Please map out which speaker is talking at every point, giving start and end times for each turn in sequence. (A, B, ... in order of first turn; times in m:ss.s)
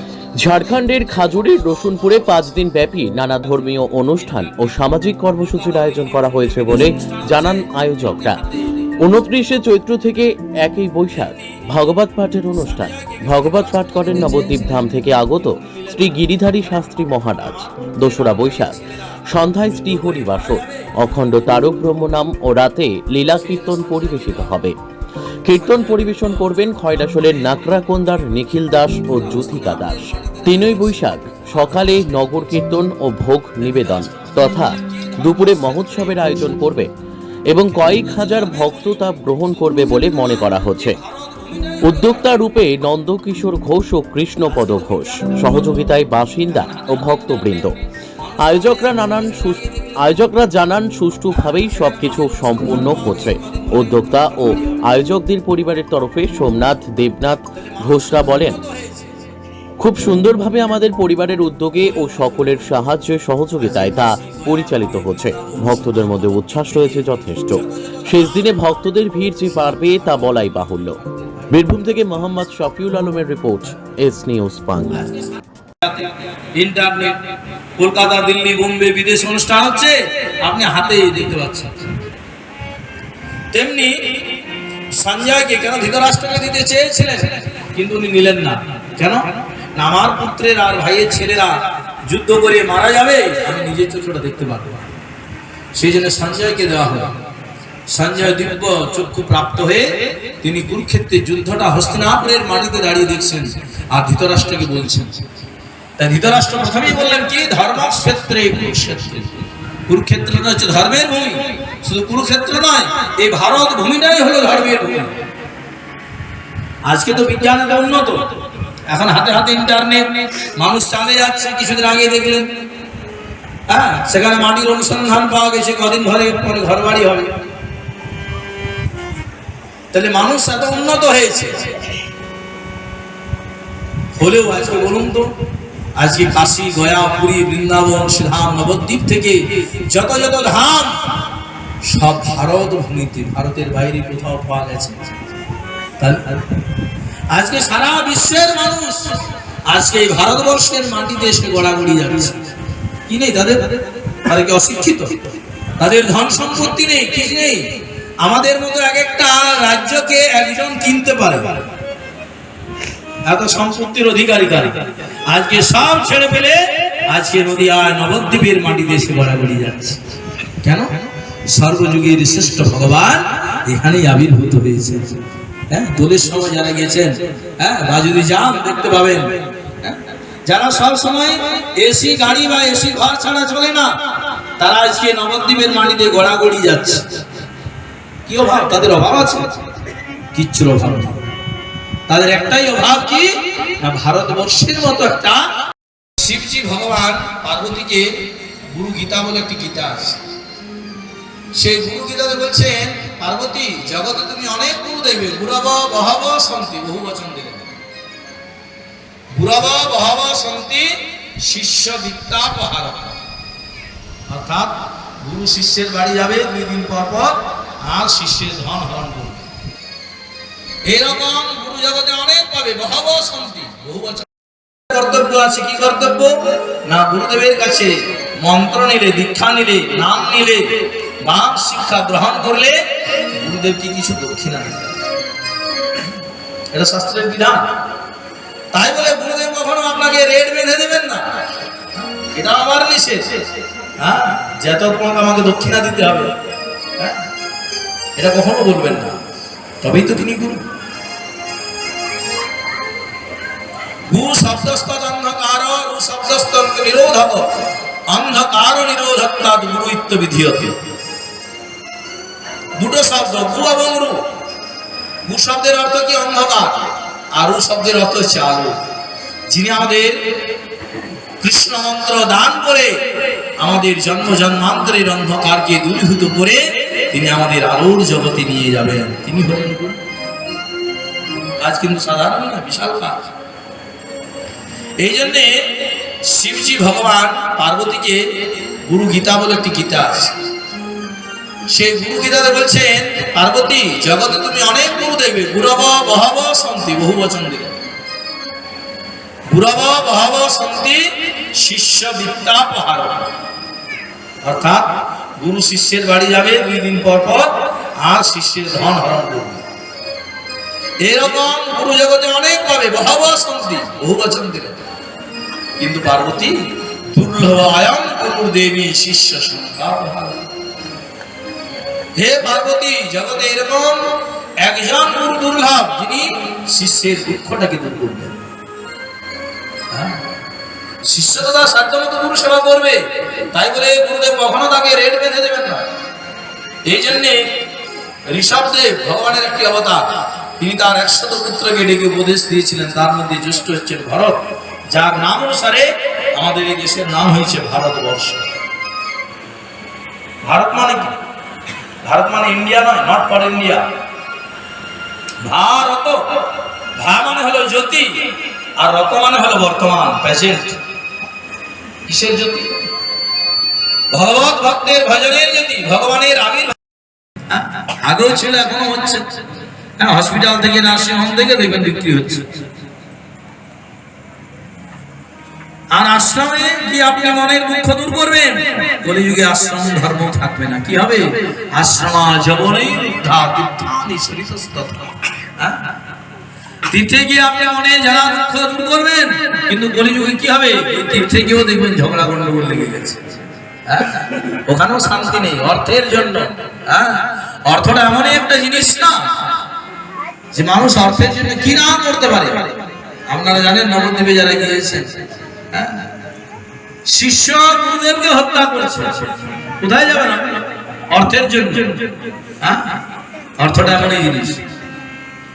0:00.4-0:18.8 A
0:05.8-0:08.4 B
0:13.1-0:14.5 B
0:15.9-0:16.3 B
0:17.5-0:18.8 B
0:19.3-0:24.8 A
0:19.7-0:21.0 B
0:23.5-0:24.5 B
0:25.4-0:36.9 A
0:25.6-0:26.4 B
0:29.0-0:32.3 B
0:33.6-0:36.5 B
0:37.5-0:41.0 A
0:37.9-0:42.5 B
0:41.8-0:47.8 A
0:44.5-0:45.3 B
0:46.5-0:50.2 B
0:48.4-0:58.6 A
0:51.5-0:54.8 B
0:57.6-0:59.1 B
0:59.8-1:11.0 A
1:03.6-1:08.5 B
1:11.5-1:15.2 A
1:15.8-1:17.2 B
1:17.8-1:21.9 B
1:23.5-1:24.1 B
1:24.9-1:34.9 B
1:35.7-1:37.2 B
1:37.9-1:45.2 B
1:46.0-1:49.3 B
1:49.9-1:55.1 B
1:56.9-1:58.2 B
1:58.9-2:02.5 B
2:03.7-2:07.3 B
2:09.9-2:11.8 B
2:14.2-2:15.3 B
2:16.0-2:21.2 B
2:21.8-2:25.1 B
2:26.0-2:26.6 B
2:27.3-2:32.5 B
2:33.1-2:35.2 B
2:35.8-2:41.6 B
2:43.2-2:50.0 B
2:50.6-2:50.9 B
2:51.5-3:04.0 B
3:04.6-3:07.2 B
3:08.3-3:09.6 B
3:10.3-3:11.3 B
3:12.1-3:15.5 B
3:16.2-3:20.2 B
3:21.5-3:27.7 B
3:29.3-3:33.2 B
3:34.3-3:39.4 B
3:40.8-3:44.3 B
3:44.9-3:54.9 B
3:56.7-3:57.7 B
3:58.7-4:01.4 B
4:02.1-4:03.4 B
4:04.0-4:06.4 B
4:08.2-4:09.2 B
4:09.8-4:10.6 B
4:14.1-4:20.8 B
4:22.8-4:24.3 B
4:25.2-4:28.8 B
4:29.5-4:30.2 B
4:31.4-4:40.0 B
4:41.6-4:43.3 B
4:45.0-4:50.4 B
4:51.7-4:57.8 B
4:59.5-5:03.3 B
5:04.4-5:09.6 B
5:11.0-5:14.8 B
5:15.8-5:20.5 B
5:22.2-5:28.4 B
5:29.9-5:30.3 B
5:31.0-5:35.9 B
5:36.8-5:37.5 B
5:38.3-5:48.5 B
5:50.4-5:51.2 B
5:52.0-5:53.9 B
5:55.4-6:00.8 B
6:02.1-6:02.8 B
6:04.1-6:06.8 B
6:07.5-6:09.4 B
6:10.0-6:12.6 B
6:15.9-6:25.9 B
6:26.9-6:39.4 B
6:40.5-6:46.1 B
6:47.1-6:53.0 B
6:53.6-6:54.6 B